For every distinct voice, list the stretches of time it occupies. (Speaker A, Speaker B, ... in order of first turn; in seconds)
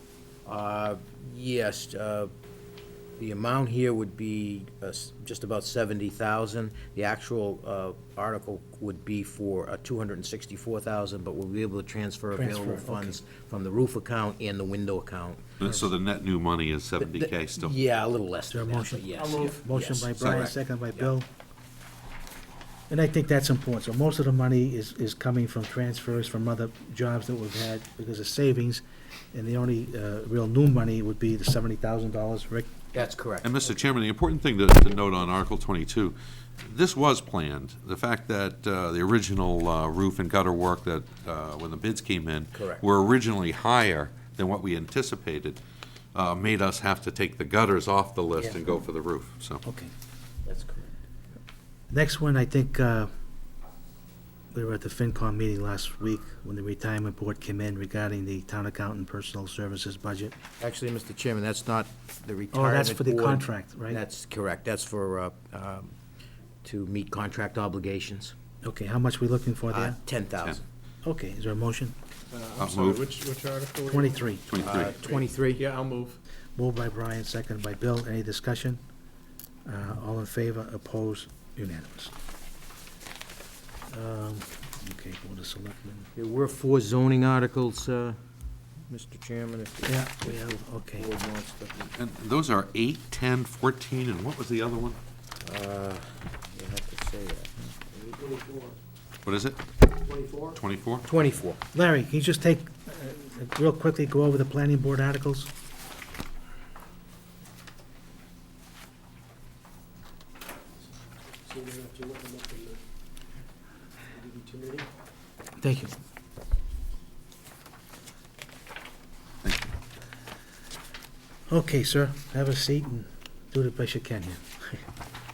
Speaker A: 0.5-2.3, 3.2-15.6, 17.0-21.1, 32.9-33.5, 42.5-42.8, 50.5-50.9, 60.6-65.9, 66.6-68.3, 69.7-70.6, 74.6-75.7, 86.2-88.2, 88.9-90.0, 91.0-91.7, 95.4-98.2, 101.0-101.6
Speaker B: 12.3-13.2, 18.5-21.3, 22.9-32.7, 49.6-49.9, 51.9-53.1, 54.5-60.4, 62.5-64.0, 68.6-70.0, 71.0-72.0, 73.9-74.5, 76.6-78.8, 79.7-82.1, 83.9-86.1, 89.8-91.1, 101.7-105.5, 115.6-115.9, 121.5-124.8
Speaker C: 15.6-17.8, 33.4-45.6, 46.1-49.6, 72.6-73.1, 74.5-75.0, 91.8-95.0, 99.3-99.6, 100.6-101.1, 119.4-119.7
Speaker D: 19.1-19.6, 72.3-76.2
Speaker E: 98.2-98.8, 99.9-100.6, 110.8-112.8, 114.1-114.9